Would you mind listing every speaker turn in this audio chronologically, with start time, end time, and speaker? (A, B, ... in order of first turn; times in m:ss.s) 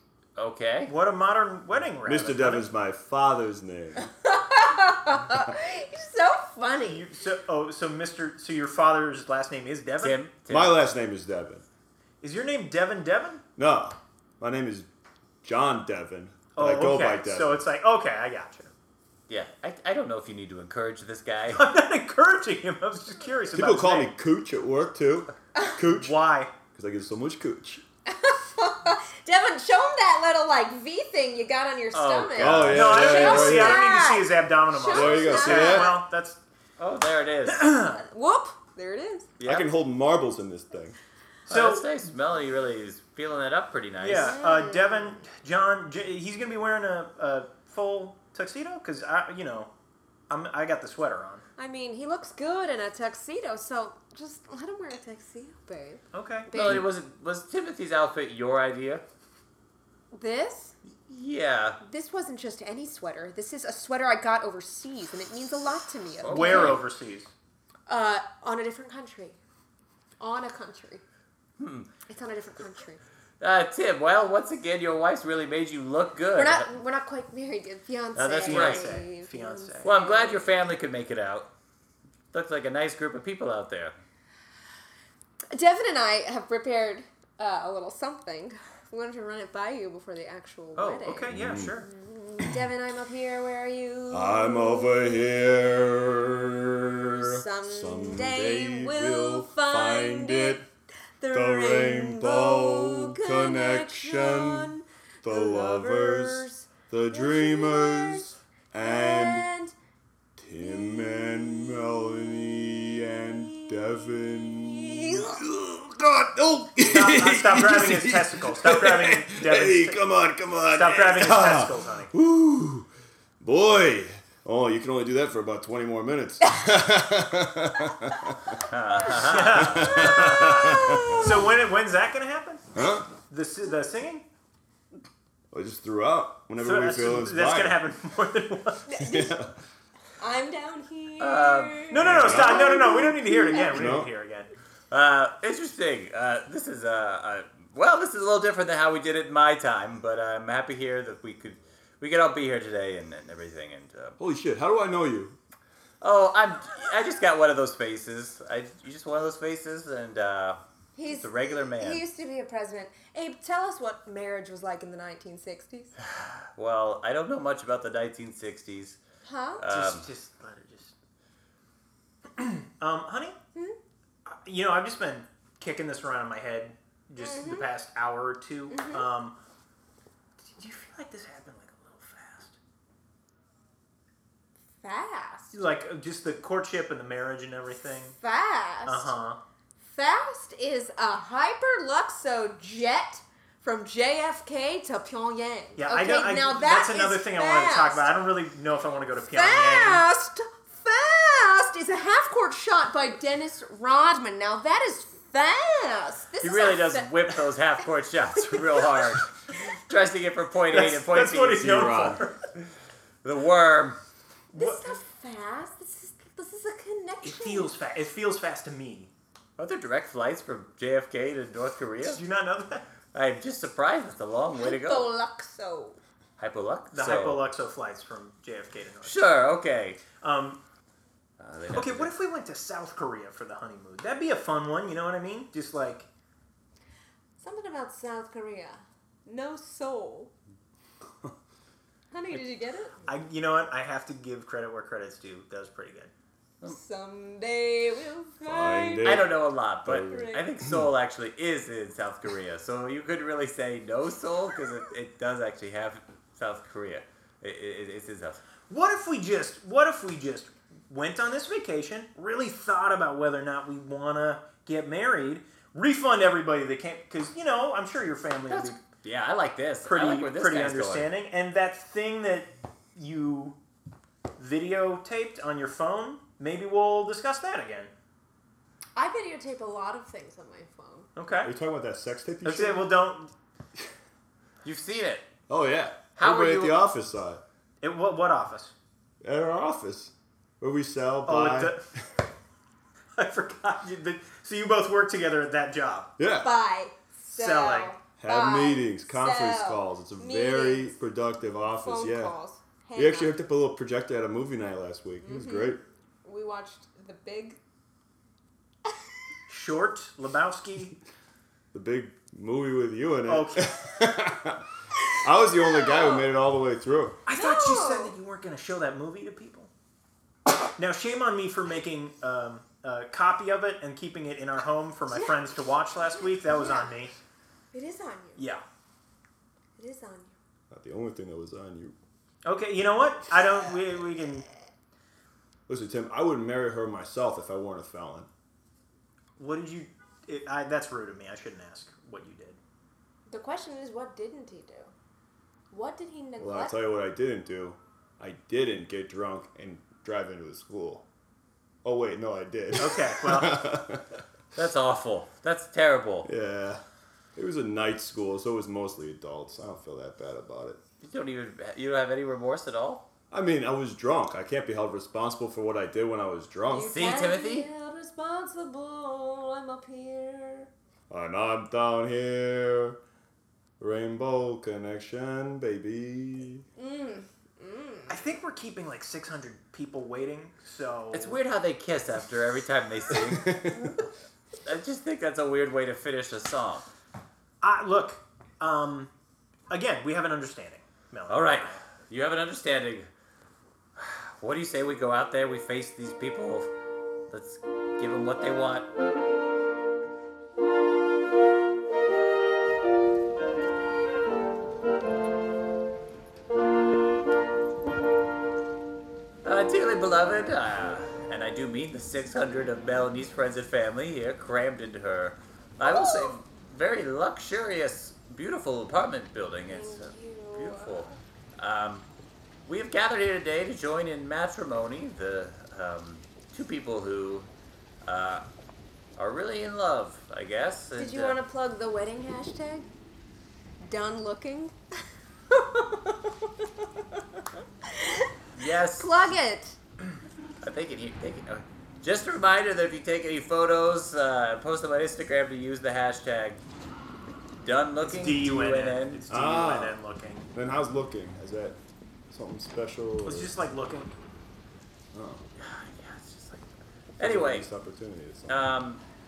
0:00.4-0:00.9 A
0:00.9-0:02.6 B
0:02.0-0:04.1 C
0:04.0-0:07.0 D
0:06.8-0:10.2 B
0:10.0-0:10.8 A
0:10.5-0:11.6 C
0:12.2-0:13.4 B
0:13.6-0:14.9 C
0:15.4-0:17.6 C
0:16.6-0:18.7 B
0:19.3-0:21.6 A
0:21.5-0:24.1 B
0:23.5-0:27.8 C
0:25.9-0:26.5 B
0:28.1-0:36.0 D
0:31.9-0:33.0 A
0:32.4-0:33.8 C
0:32.7-0:36.4 B
0:34.8-0:35.9 C
0:36.8-0:37.6 A
0:37.5-0:38.0 B
0:37.9-0:39.3 D
0:39.4-0:39.7 A
0:39.4-0:41.0 C
0:41.4-0:41.9 B
0:41.5-0:44.4 A
0:44.0-0:49.7 B
0:44.0-0:45.2 D
0:50.3-0:51.4 B
0:51.6-0:56.9 D
0:56.1-0:56.5 B
0:56.5-0:59.0 A
1:00.1-1:00.8 D
1:01.1-1:01.8 A
1:01.8-1:06.8 D
1:06.2-1:06.8 A
1:06.3-1:07.3 B
1:07.9-1:09.4 D
1:10.2-1:11.0 D
1:11.6-1:11.9 A
1:12.1-1:13.0 D
1:13.4-1:16.7 A
1:16.3-1:20.6 D
1:18.2-1:19.9 B
1:18.4-1:19.0 A
1:19.8-1:21.5 A
1:22.3-1:23.9 A
1:25.5-1:35.1 D
1:30.8-1:31.8 B
1:31.3-1:31.7 C
1:34.1-1:40.6 C
1:37.1-1:40.6 D
1:41.2-1:49.7 D
1:41.3-1:49.5 C
1:50.4-2:02.9 C
1:50.6-1:51.6 D
1:53.4-1:55.2 D
1:56.8-2:00.0 B
2:00.7-2:02.1 B
2:03.4-2:08.6 C
2:08.7-2:10.0 A
2:09.0-2:12.6 B
2:09.5-2:11.4 C
2:10.6-2:11.3 D
2:12.7-2:13.1 C
2:13.3-2:14.2 B
2:15.5-2:17.8 C
2:16.6-2:18.8 B
2:18.9-2:19.4 D
2:19.0-2:19.5 C
2:20.2-2:24.0 D
2:21.2-2:21.8 A
2:21.9-2:24.5 B
2:22.0-2:23.1 C
2:23.6-2:24.1 C
2:24.9-2:34.2 A
2:34.2-2:35.4 C
2:36.0-2:42.0 A
2:40.9-2:45.9 D
2:46.1-2:49.0 A
2:49.2-2:49.6 D
2:49.6-2:50.1 A
2:49.7-2:50.9 B
2:52.3-2:53.4 B
2:54.2-2:59.4 B
2:57.2-2:57.7 D
2:58.7-2:59.1 D
3:00.5-3:02.6 B
3:04.8-3:05.6 D
3:05.5-3:08.2 B
3:08.2-3:09.1 D
3:08.8-3:09.4 B
3:09.8-3:18.1 D
3:15.8-3:20.0 B
3:19.3-3:27.4 D
3:26.4-3:32.2 A
3:30.7-3:32.4 B
3:33.2-3:34.0 A
3:34.5-3:34.8 B
3:34.5-3:37.7 D
3:37.2-3:39.1 B
3:39.6-3:42.2 A
3:42.0-3:42.9 B
3:43.1-3:45.1 A
3:44.6-3:46.0 D
3:46.4-3:47.4 A
3:46.9-3:49.3 B
3:49.0-3:50.0 A
3:50.1-3:50.6 B
3:51.4-3:52.1 A
3:51.7-3:56.1 B
3:57.4-4:00.3 D
4:02.1-4:02.9 D
4:03.0-4:06.1 B
4:06.6-4:09.2 D
4:08.4-4:10.9 C
4:09.0-4:18.4 A
4:10.0-4:10.5 D
4:18.7-4:28.8 B
4:28.5-4:31.1 A
4:29.8-4:33.6 B
4:34.4-4:37.9 B
4:38.9-4:41.1 D
4:41.2-4:41.5 B
4:41.4-4:42.9 C
4:42.4-4:43.3 B
4:44.6-4:45.3 A
4:45.5-4:47.4 C
4:46.2-4:46.8 A
4:47.8-4:48.7 B
4:49.2-4:51.8 C
4:51.2-4:51.8 B
4:53.2-4:56.1 B
4:56.2-4:56.5 C
4:56.4-5:01.0 D
4:57.3-4:58.0 B
4:58.2-5:02.4 C
5:01.8-5:03.3 D
5:03.0-5:05.8 C
5:05.2-5:07.6 D
5:09.5-5:11.0 B
5:11.7-5:14.6 C
5:13.3-5:13.6 B
5:15.2-5:17.2 C
5:15.6-5:16.2 D
5:17.2-5:19.7 B
5:17.3-5:18.1 D
5:20.8-5:27.2 B
5:25.1-5:25.4 D
5:26.2-5:26.9 D
5:27.7-5:28.4 D
5:28.4-5:28.6 B
5:29.8-5:30.3 D
5:30.7-5:32.0 C
5:32.4-5:34.4 B
5:35.7-5:38.3 C
5:39.4-5:42.6 B
5:43.3-5:44.9 D
5:45.7-5:46.8 D
5:46.4-5:51.0 C
5:51.8-5:54.2 C
5:52.8-5:53.6 B
5:54.5-5:56.3 A
5:56.2-5:56.8 C
5:57.3-6:00.8 C
6:01.0-6:03.0 A
6:03.3-6:07.0 C
6:06.7-6:10.7 D
6:06.9-6:07.7 A
6:11.1-6:13.0 C
6:13.8-6:16.6 C
6:16.8-6:18.2 D
6:18.1-6:21.4 B
6:21.1-6:23.5 A
6:23.1-6:23.9 C
6:24.6-6:26.9 A
6:27.6-6:29.1 B
6:29.7-6:31.8 B
6:31.3-6:33.1 A
6:34.0-6:36.7 A
6:37.3-6:38.9 A
6:49.4-7:02.0 A
6:55.8-6:56.3 D
6:59.7-7:01.2 D
7:02.6-7:07.5 A
7:08.0-7:08.4 A
7:09.2-7:11.4 A
7:11.0-7:12.9 D
7:13.8-7:14.7 D
7:15.5-7:17.2 D
7:17.9-7:18.3 D
7:18.5-7:19.3 A
7:19.0-7:19.8 D
7:20.6-7:26.6 A
7:27.6-7:29.2 A
7:28.0-7:30.4 B
7:29.3-7:30.0 C
7:30.5-7:31.8 C
7:32.3-7:33.5 C
7:33.2-7:34.1 B
7:35.1-7:35.4 C
7:35.6-7:36.7 A
7:37.2-7:37.7 A
7:37.2-7:38.6 C
7:38.5-7:39.0 A